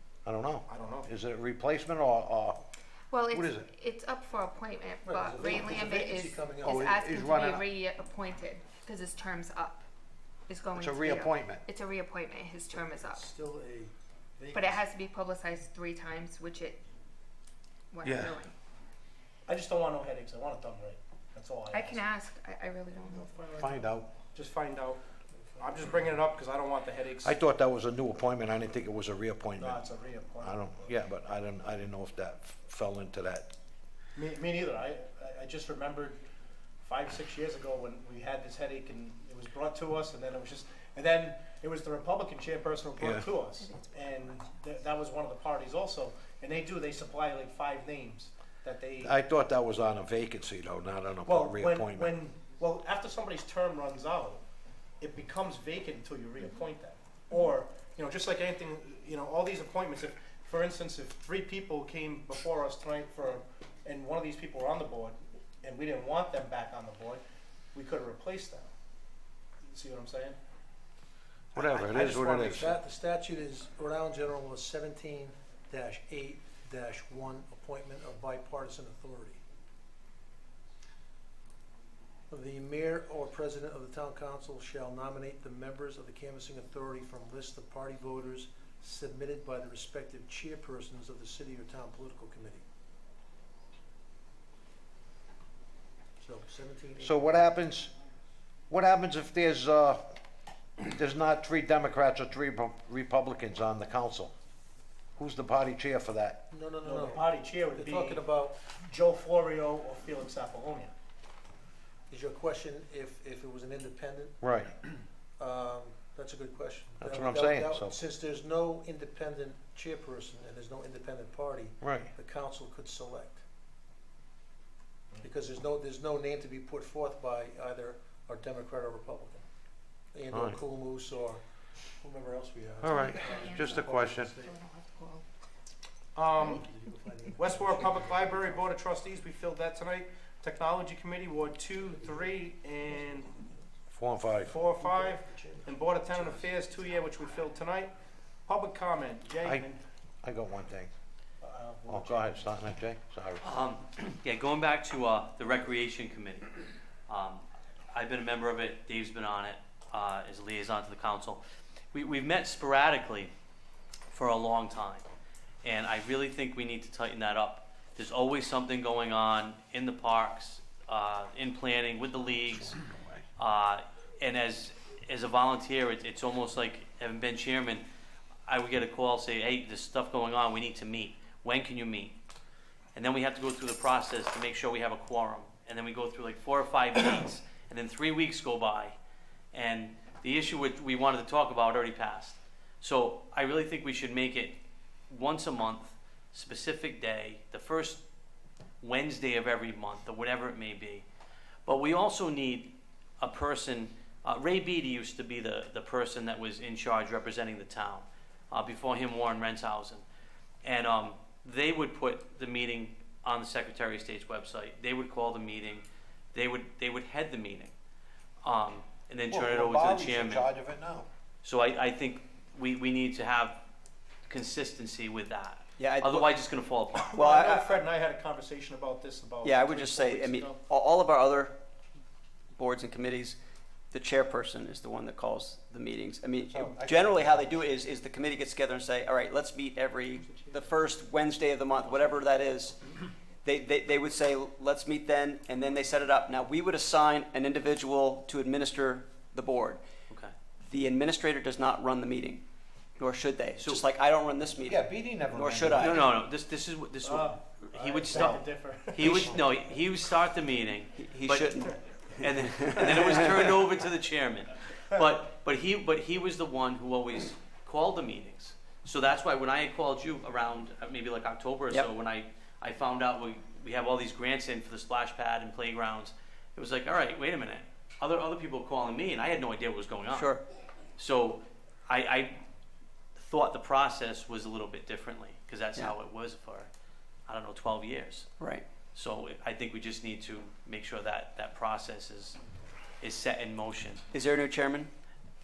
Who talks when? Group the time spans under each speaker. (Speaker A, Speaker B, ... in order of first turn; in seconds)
Speaker A: 0.2-2.7, 3.3-3.7, 6.6-7.6, 10.8-11.6, 18.0-18.4, 23.5-24.1, 27.2-29.9, 30.4-33.5, 43.0-43.3, 49.0-52.1, 71.5-72.8, 97.0-97.9, 98.7-100.2, 100.8-104.3, 105.2-106.5, 114.4-114.7, 117.0-118.0, 121.8-122.1, 130.3-130.6, 132.8-134.3, 143.9-144.6, 150.2-150.9, 151.9-153.4, 172.5-173.2, 219.3-221.1, 236.5-237.7, 254.7-256.1, 258.1-258.5
Speaker B: 0.7-1.1, 19.5-22.0, 23.1-23.7, 24.3-25.0, 25.6-27.4, 29.6-30.9, 34.1-36.2, 36.8-49.2, 51.2-54.4, 55.0-67.2, 67.7-68.7, 69.7-70.4, 106.8-110.9, 136.2-136.6, 137.4-143.3, 144.4-147.9, 148.5-149.8, 151.4-152.5, 226.9-230.6, 240.3-240.6, 257.0-259.4, 262.7-263.6
Speaker C: 3.1-9.8, 10.5-13.3, 14.5-16.8, 17.9-18.5, 21.7-23.6, 43.6-44.6, 132.9-135.2
Speaker D: 5.0-6.9, 13.0-14.8, 25.4-26.1, 71.6-79.4, 82.3-92.6, 96.2-97.3, 106.5-108.6, 112.1-114.4, 115.4-123.4, 125.2-129.5, 130.1-131.4, 132.0-134.6, 136.4-138.8, 141.8-143.7, 144.5-146.5
Speaker E: 153.4-156.5, 157.1-161.4, 161.9-163.3, 164.1-165.1, 165.6-172.8, 173.4-177.8, 178.5-182.2, 182.9-189.0, 189.5-194.6, 195.1-198.0, 198.8-201.1, 201.7-210.0, 210.6-217.7, 218.4-220.5, 221.4-223.6, 224.3-227.2, 253.6-253.8, 255.7-261.6, 262.2-280.4, 281.0-282.4, 283.2-286.7, 287.3-288.3, 288.9-292.4, 293.0-294.0
Speaker F: 225.8-226.3, 227.2-227.8, 229.4-231.6, 232.6-233.4, 233.9-242.8, 243.4-249.8, 250.7-252.4, 253.0-256.1, 260.9-261.7, 262.5-263.5, 280.1-280.4, 288.4-288.7, 294.1-294.9